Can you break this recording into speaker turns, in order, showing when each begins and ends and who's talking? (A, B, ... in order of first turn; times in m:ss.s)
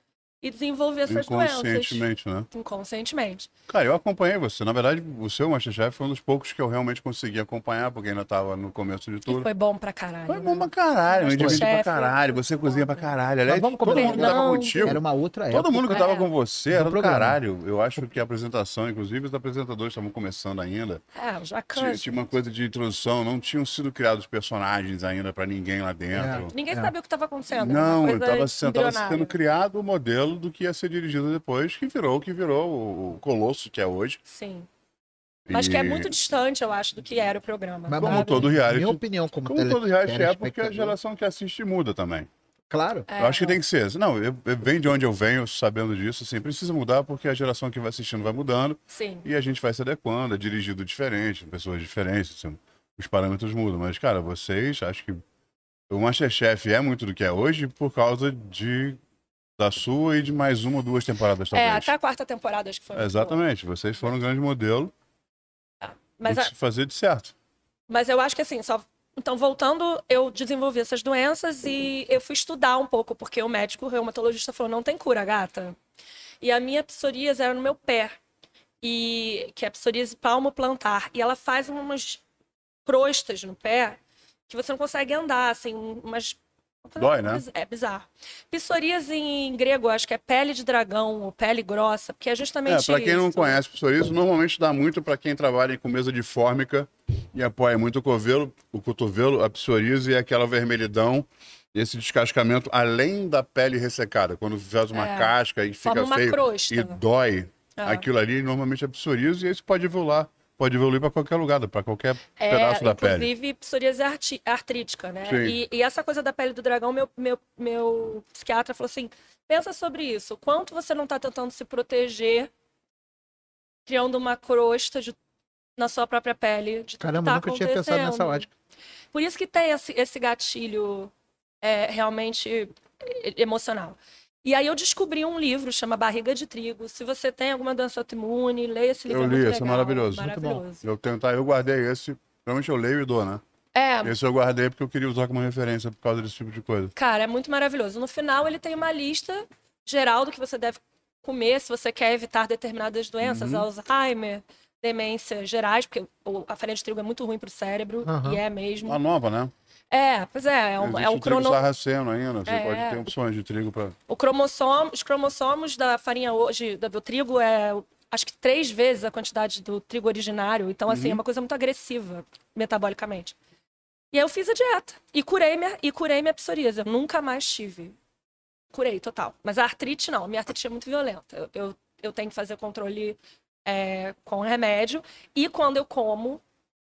0:00.4-0:03.5 A
0:01.1-0:02.5 B
0:03.7-0:09.5 B
0:09.3-0:13.1 A
0:10.3-0:21.0 B
0:11.4-0:11.6 C
0:13.5-0:16.0 C
0:13.8-0:14.9 A
0:15.9-0:16.3 A
0:16.7-0:17.4 C
0:21.1-0:22.1 A
0:21.7-0:26.5 B
0:26.1-0:26.9 C
0:26.5-0:29.3 A
0:27.6-0:34.2 B
0:34.2-0:34.7 A
0:35.5-0:36.1 B
0:35.5-0:38.5 A
0:37.9-0:41.0 C
0:38.0-0:42.3 B
0:42.7-0:43.1 C
0:43.1-0:43.6 A
0:43.2-0:55.2 B
0:48.9-0:49.2 A
0:55.9-0:59.0 B
0:59.6-1:01.9 B
1:01.5-1:03.4 A
1:03.0-1:04.9 B
1:05.8-1:06.5 A
1:06.2-1:07.3 B
1:07.9-1:15.8 A
1:16.4-1:18.1 A
1:18.8-1:22.2 A
1:22.8-1:33.6 A
1:27.0-1:27.4 B
1:32.6-1:53.3 B
1:44.9-1:45.3 A
1:45.8-1:47.0 A
1:47.8-1:48.0 A
1:52.4-2:02.5 A
1:55.2-1:55.6 B
2:03.8-2:05.2 A
2:05.8-2:08.5 A
2:07.0-2:08.5 C
2:09.1-2:20.8 A
2:19.1-2:23.4 B
2:20.2-2:20.6 C
2:23.7-2:24.1 A
2:24.0-2:26.9 B
2:27.0-2:39.0 A
2:33.2-2:33.6 B
2:38.0-2:38.4 C
2:38.8-2:39.5 B
2:39.9-2:41.6 A
2:40.8-2:44.0 B
2:42.5-2:43.1 A
2:44.1-2:53.4 A
2:50.9-2:51.2 B
2:54.1-2:58.0 A
2:58.7-3:06.4 A